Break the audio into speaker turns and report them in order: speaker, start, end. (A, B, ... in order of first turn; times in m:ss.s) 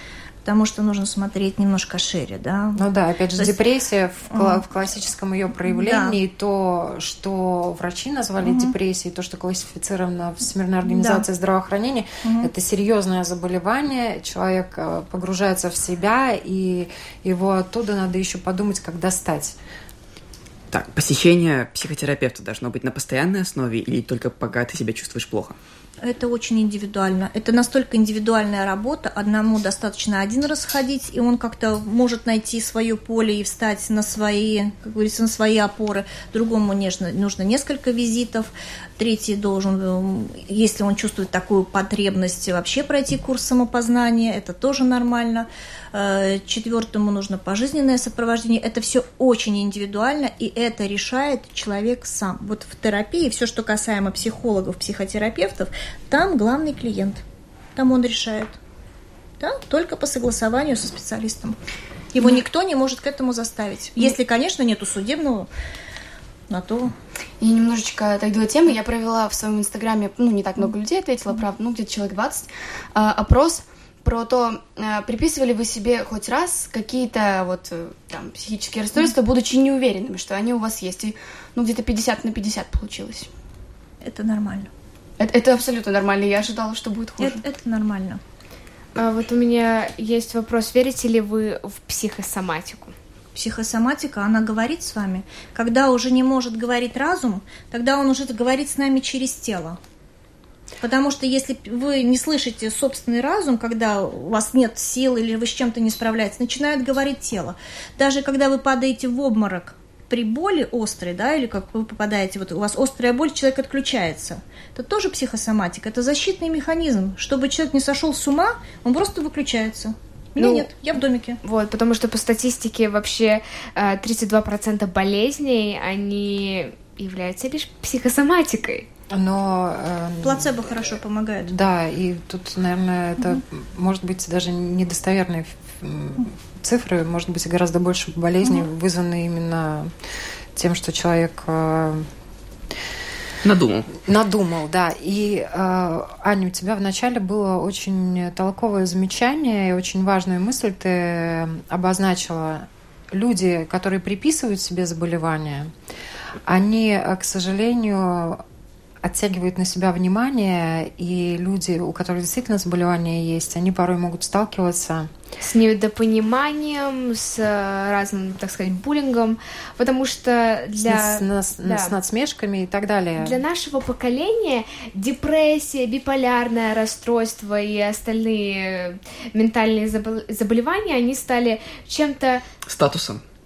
0:00.4-0:02.8 A
0:02.8-0:19.6 B
0:04.3-0:04.7 A
0:05.7-0:06.2 A
0:08.4-0:08.7 A
0:10.8-0:11.2 A
0:12.2-0:12.5 A
0:20.7-0:25.6 C
0:26.0-0:57.2 A
0:57.8-0:58.6 A
0:59.4-1:01.6 A
1:02.1-1:05.5 A
1:06.5-1:06.9 A
1:07.4-1:23.3 D
1:24.0-1:24.7 A
1:25.2-1:27.4 D
1:27.2-1:28.2 A
1:28.9-1:32.9 E
1:33.3-1:39.8 A
1:40.8-2:01.4 A
2:01.4-2:08.9 E
2:09.1-2:10.9 B
2:10.2-2:11.5 A
2:11.4-2:19.9 B
2:20.5-2:22.1 B
2:23.4-2:23.9 C
2:24.0-2:35.7 B
2:36.4-2:38.4 B
2:39.0-2:45.1 B
2:45.4-2:51.9 E
2:50.7-2:53.4 B
2:53.2-3:02.4 E
3:02.7-3:03.2 C